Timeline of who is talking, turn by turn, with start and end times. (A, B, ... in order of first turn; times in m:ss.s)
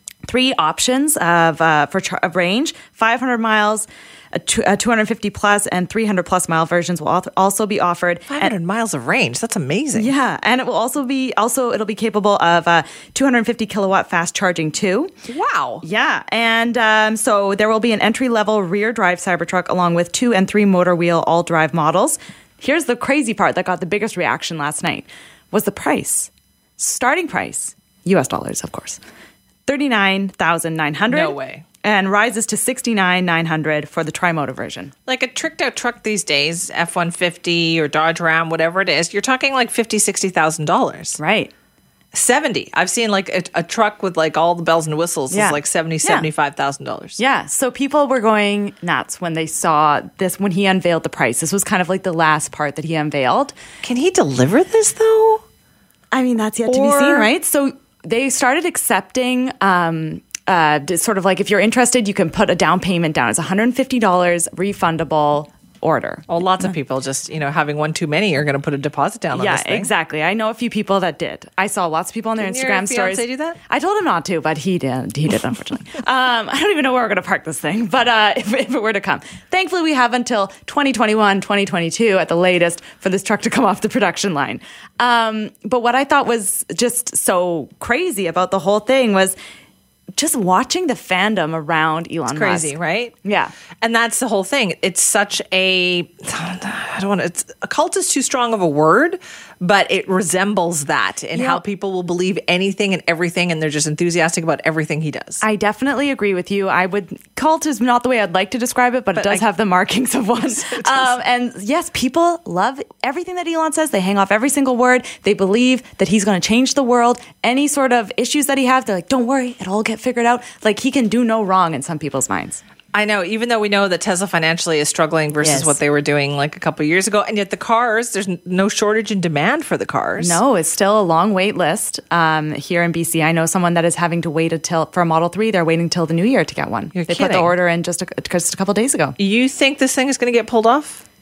0:00.2-0:08.5 A
0:08.3-0:10.1 B
0:09.9-0:15.1 A
0:15.3-0:15.8 B
0:15.8-0:29.0 A
0:29.6-0:34.9 A
0:31.1-0:31.6 B
0:35.1-0:41.2 B
0:41.2-0:41.5 A
0:42.1-0:47.2 B
0:45.3-0:46.3 A
0:47.2-0:53.5 A
0:53.8-0:55.4 B
0:56.1-1:06.3 A
0:56.6-0:57.3 B
1:06.3-1:09.9 B
1:09.3-1:29.4 A
1:12.4-1:13.6 B
1:30.2-1:33.5 A
1:32.3-1:33.1 B
1:33.8-1:45.4 B
1:41.3-1:41.6 A
1:45.4-2:02.6 A
1:49.1-1:49.4 B
1:50.3-1:51.2 B
2:02.9-2:10.4 B
2:05.4-2:05.8 A
2:10.2-2:19.2 A
2:16.9-2:17.5 B
2:19.2-2:21.0 B